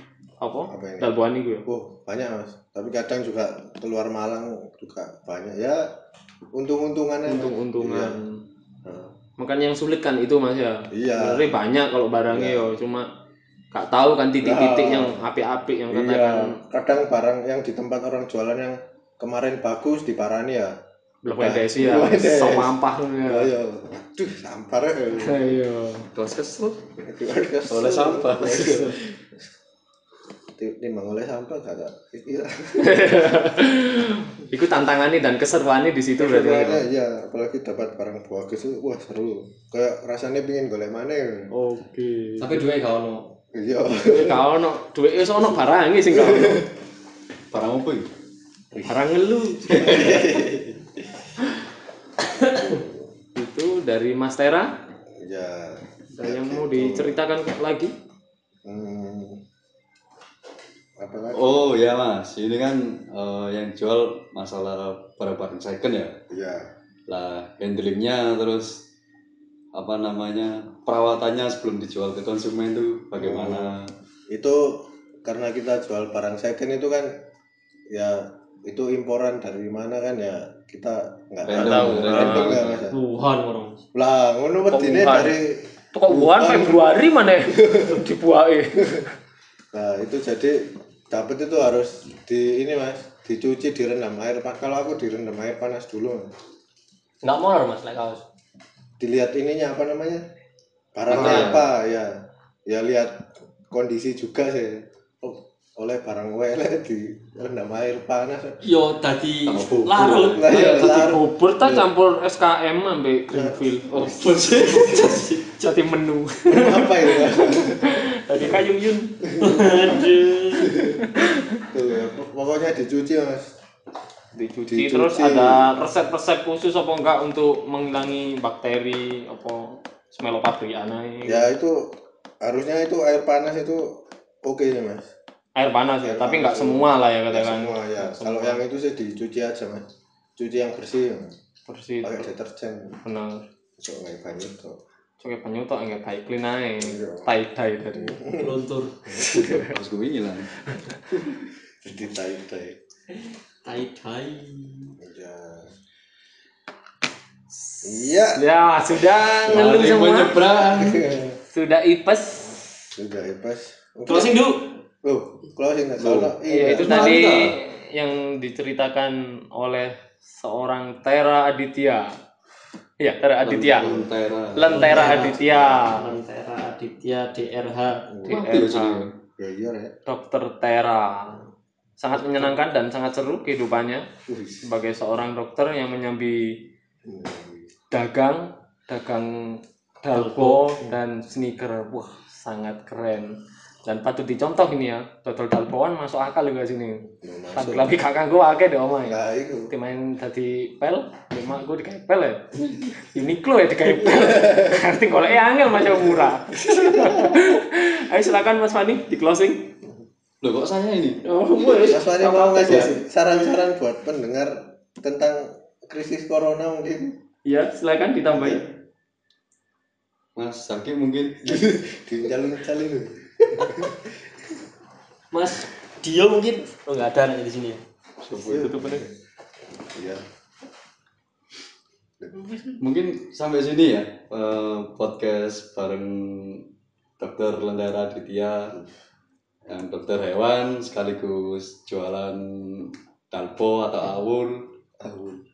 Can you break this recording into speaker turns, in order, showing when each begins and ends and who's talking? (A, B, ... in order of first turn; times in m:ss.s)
0:00.4-0:01.7 A
0:00.7-0:05.8 B
0:06.6-0:08.2 B
0:07.3-0:08.4 A
0:08.8-0:09.1 B
0:09.4-0:13.1 A
0:10.9-0:11.5 B
0:12.3-0:12.7 B
0:13.7-0:16.6 A
0:14.4-0:15.2 B
0:15.9-0:20.7 B
0:21.2-0:23.5 A
0:21.3-0:25.6 B
0:25.2-0:26.1 A
0:26.1-0:26.8 C
0:27.0-0:29.0 B
0:27.7-0:29.1 C
0:28.4-0:28.9 A
0:30.6-0:33.3 B
0:32.8-0:36.8 A
0:36.2-0:41.5 B
0:41.5-0:42.6 A
0:42.4-0:43.3 D
0:43.5-0:44.5 B
0:44.1-0:46.7 A
0:46.1-0:46.7 B
0:47.5-0:48.1 C
0:48.8-0:50.2 A
0:49.6-0:51.2 B
0:49.7-0:50.5 C
0:52.4-0:53.1 B
0:53.4-0:54.8 A
0:55.2-0:57.2 B
0:56.1-0:57.9 A
0:58.6-0:59.4 B
1:01.0-1:01.7 B
1:01.3-1:06.2 C
1:06.3-1:06.7 B
1:07.1-1:08.8 C
1:09.7-1:13.9 C
1:13.2-1:13.8 B
1:14.3-1:17.2 B
1:17.9-1:23.0 B
1:21.5-1:22.8 C
1:21.5-1:22.8 A
1:22.9-1:23.8 D
1:23.9-1:27.0 B
1:24.7-1:25.4 A
1:25.9-1:29.1 A
1:27.5-1:28.0 B
1:29.7-1:36.3 B
1:37.2-1:38.2 D
1:39.0-1:40.2 B
1:40.9-1:48.6 B
1:41.1-1:41.6 D
1:41.1-1:41.6 A
1:48.6-1:50.7 D
1:49.5-1:50.4 C
1:50.0-1:51.9 B
1:50.4-1:59.3 A
1:53.3-1:55.2 B
1:54.0-1:54.2 C
1:54.1-1:55.7 D
1:54.8-1:55.2 C
1:56.5-1:58.6 B
1:58.3-2:00.8 D
1:59.2-2:00.0 B
2:00.6-2:03.5 B
2:01.0-2:01.7 A
2:04.4-2:11.5 A
2:04.7-2:05.7 B
2:11.2-2:15.1 B
2:15.6-2:18.6 A
2:16.0-2:19.9 B
2:20.4-2:21.4 B
2:21.7-2:22.3 A
2:22.0-2:23.0 B
2:23.0-2:23.4 A
2:23.8-2:24.8 B
2:25.2-2:28.2 A
2:26.8-2:27.4 B
2:27.9-2:28.5 B
2:28.4-2:29.1 D
2:29.1-2:29.7 B
2:29.4-2:30.6 C
2:31.2-2:32.8 B
2:33.6-2:35.0 D
2:35.0-2:35.7 B
2:37.6-2:40.5 A
2:37.8-2:38.5 B
2:39.4-2:40.0 B
2:39.4-2:41.2 C
2:40.6-2:41.4 B
2:41.5-2:42.7 A
2:43.0-2:44.4 B
2:44.1-2:44.7 D
2:45.0-2:47.6 B
2:46.0-2:47.3 C
2:46.4-2:52.1 A
2:53.0-2:54.0 A
2:53.4-2:55.2 C
2:53.8-2:54.1 B
2:54.6-2:56.2 A
2:54.7-2:58.1 D
2:54.8-2:56.1 B
2:58.1-2:58.4 B
2:58.2-2:59.1 C
2:58.3-2:59.1 A
2:59.4-3:00.0 B
3:00.1-3:01.4 A
3:02.0-3:04.1 A
3:04.3-3:04.6 B
3:04.6-3:06.7 A
3:07.0-3:07.7 B
3:07.9-3:19.2 A
3:10.1-3:10.8 D
3:17.2-3:17.9 B
3:19.0-3:19.7 B
3:19.7-3:29.7 A
3:24.0-3:24.8 B
3:25.8-3:27.6 B
3:30.4-3:31.2 C
3:31.2-3:33.0 A
3:31.7-3:37.2 B
3:37.4-3:38.7 A
3:38.3-3:38.6 B
3:40.4-3:41.8 C
3:41.4-3:44.1 B
3:45.3-3:47.8 D
3:48.3-3:48.7 C
3:48.3-3:49.0 A
3:48.4-3:49.2 B
3:49.8-3:50.2 B
3:52.2-3:52.5 B
3:52.8-3:56.7 C
3:57.2-3:58.8 C
3:59.7-4:04.7 C
4:05.0-4:05.4 B